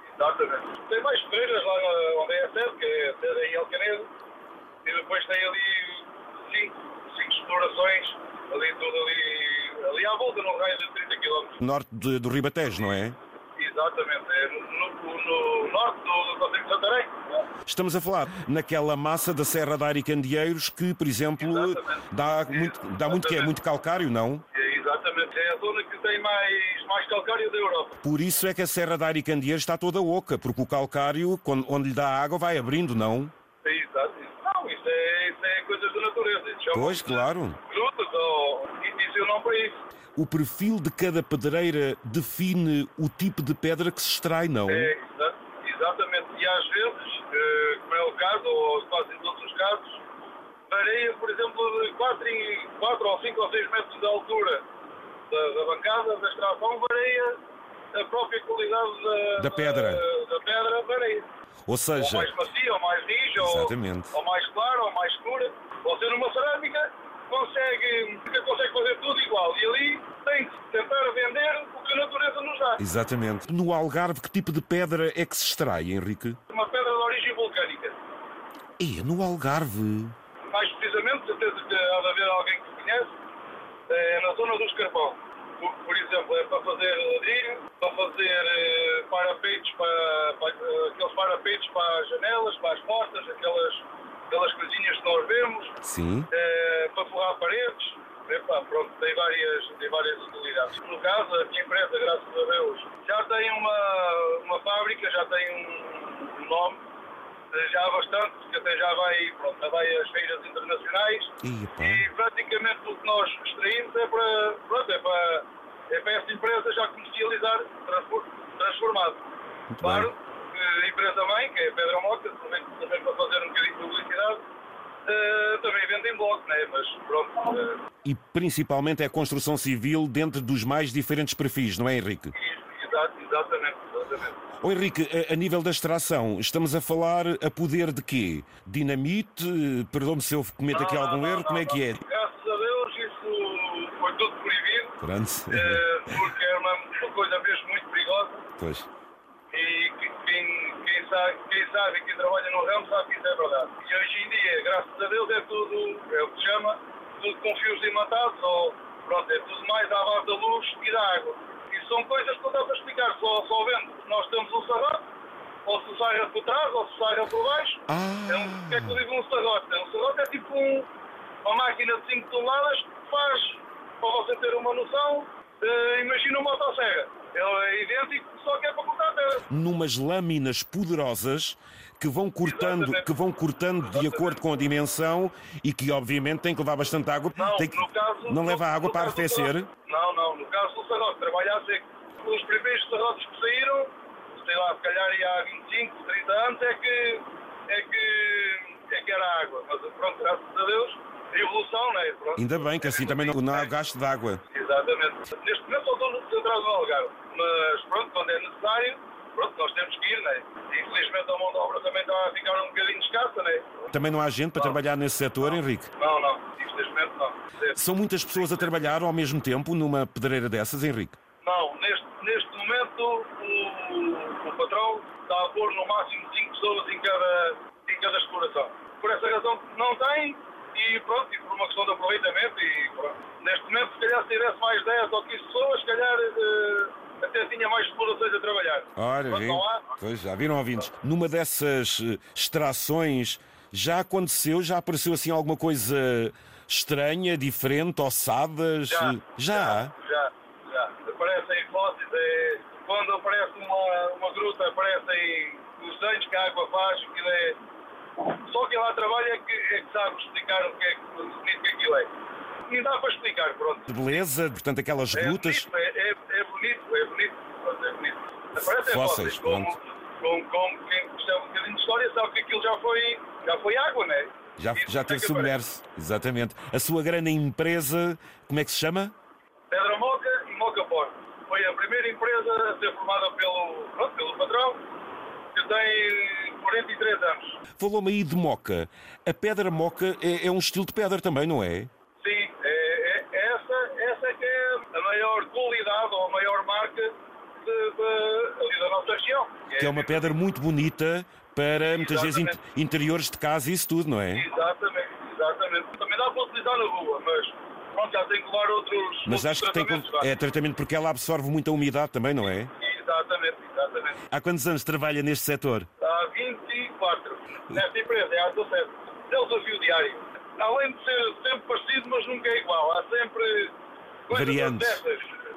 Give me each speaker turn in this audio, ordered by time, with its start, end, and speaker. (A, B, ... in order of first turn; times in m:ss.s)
0:00.2-0:04.1 A
0:04.8-0:11.6 A
0:11.6-0:13.2 B
0:13.6-0:17.5 A
0:17.7-0:24.4 B
0:21.4-0:23.5 A
0:24.5-0:28.0 A
0:28.0-0:33.3 B
0:33.6-0:39.8 A
0:36.7-0:37.6 B
0:40.2-0:44.9 B
0:44.7-0:50.0 A
0:50.7-0:54.6 A
0:55.3-0:57.4 A
0:57.9-1:01.3 A
0:59.4-1:00.0 B
1:01.7-1:02.3 B
1:02.0-1:12.8 A
1:03.4-1:04.2 B
1:12.8-1:16.4 B
1:16.5-1:18.0 A
1:18.8-1:20.1 B
1:20.5-1:23.1 A
1:23.9-1:35.8 A
1:35.8-1:36.3 B
1:36.3-1:46.8 A
1:47.5-1:59.2 A
1:51.4-1:52.1 B
1:59.7-2:00.1 B
1:59.8-2:04.4 A
2:05.1-2:07.8 A
2:08.0-2:12.3 B
2:12.3-2:14.4 A
2:14.6-2:22.0 B
2:20.7-2:25.0 A
2:25.0-2:25.8 B
2:25.5-2:28.5 A
2:28.6-2:28.9 B
2:29.5-2:45.1 A
2:45.6-2:50.9 A
2:47.9-2:49.0 B
2:51.4-2:59.5 A
2:59.5-3:09.7 B
3:02.4-3:03.1 A
3:03.9-3:04.4 A
3:07.4-3:23.7 A
3:22.4-3:24.4 B
3:24.5-3:33.9 A
3:33.9-3:35.9 B
3:35.5-3:38.8 A
3:37.8-3:41.2 B
3:41.4-3:59.9 A
3:59.0-4:09.9 B
4:08.9-4:17.6 A
4:18.2-4:22.1 A
4:22.7-4:23.9 A
4:23.9-4:25.7 B
4:25.1-4:35.5 A
4:28.6-4:29.8 B
4:34.6-4:39.1 B
4:39.7-4:44.8 A
4:45.5-4:47.6 A
4:47.8-4:51.9 B
4:52.2-5:00.4 A
4:59.8-5:04.5 B
5:01.9-5:02.6 A
5:04.3-5:10.3 A
5:09.3-5:12.7 B
5:12.7-5:14.2 A
5:14.3-5:15.9 B
5:16.0-5:23.7 A
5:24.3-5:25.3 A
5:24.3-5:25.0 B